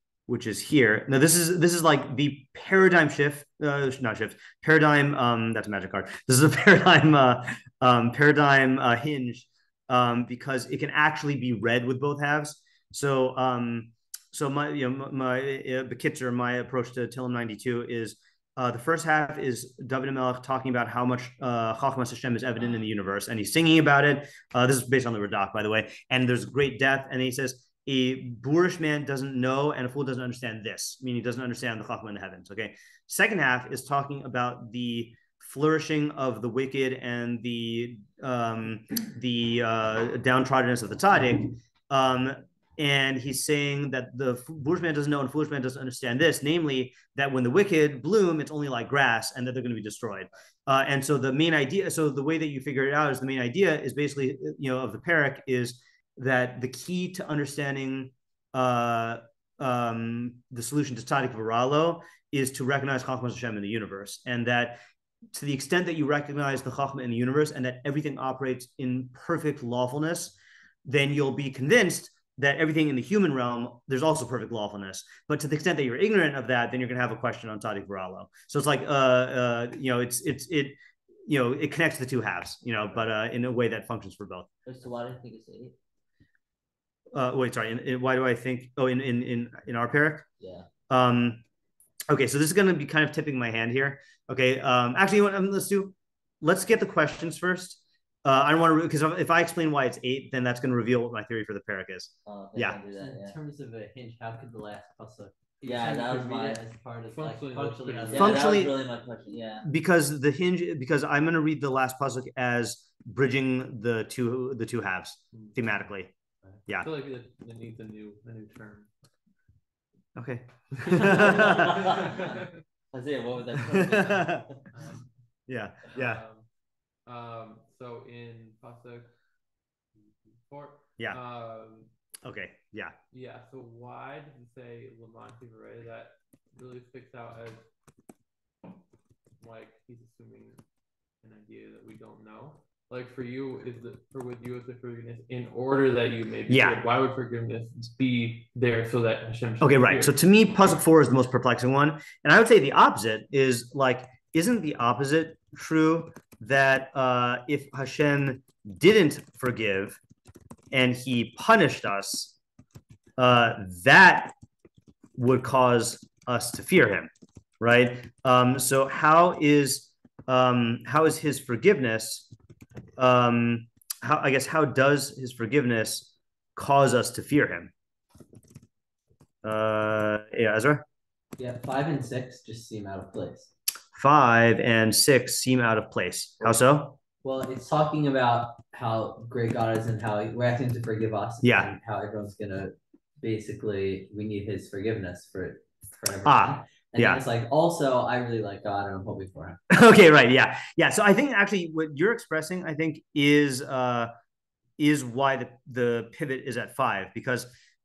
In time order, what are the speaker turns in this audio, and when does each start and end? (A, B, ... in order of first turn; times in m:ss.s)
0:00.3-1:04.8 A
1:05.3-1:24.5 A
1:24.6-1:25.8 B
1:27.1-1:30.2 A
1:30.4-1:30.7 B
1:30.9-1:31.4 A
1:32.1-1:42.8 A
1:42.2-1:43.4 B
1:43.0-1:48.6 C
1:45.6-1:46.6 B
1:47.1-1:48.3 D
1:48.0-1:49.7 B
1:48.2-1:48.7 A
1:49.6-1:56.1 A
1:56.8-1:58.9 D
2:00.2-2:01.9 A
2:00.9-2:02.4 D
2:00.9-2:04.6 B
2:03.9-2:04.4 A
2:05.5-2:06.2 A
2:05.9-2:06.4 D
2:07.0-2:09.1 D
2:10.4-2:11.9 D
2:12.2-2:12.9 A
2:13.1-2:17.6 D
2:19.4-2:20.6 D
2:21.2-2:30.2 D
2:26.5-2:26.8 A
2:29.6-2:40.0 A
2:40.7-2:42.3 A
2:43.2-2:44.3 A
2:45.2-2:47.1 A
2:47.6-2:52.2 A
2:53.0-2:57.7 A
2:59.4-3:00.8 A
3:01.4-3:03.5 C
3:04.0-3:07.0 A
3:07.2-3:19.6 C
3:11.4-3:11.7 A
3:16.2-3:17.2 A
3:19.7-3:24.1 A
3:24.8-3:27.5 A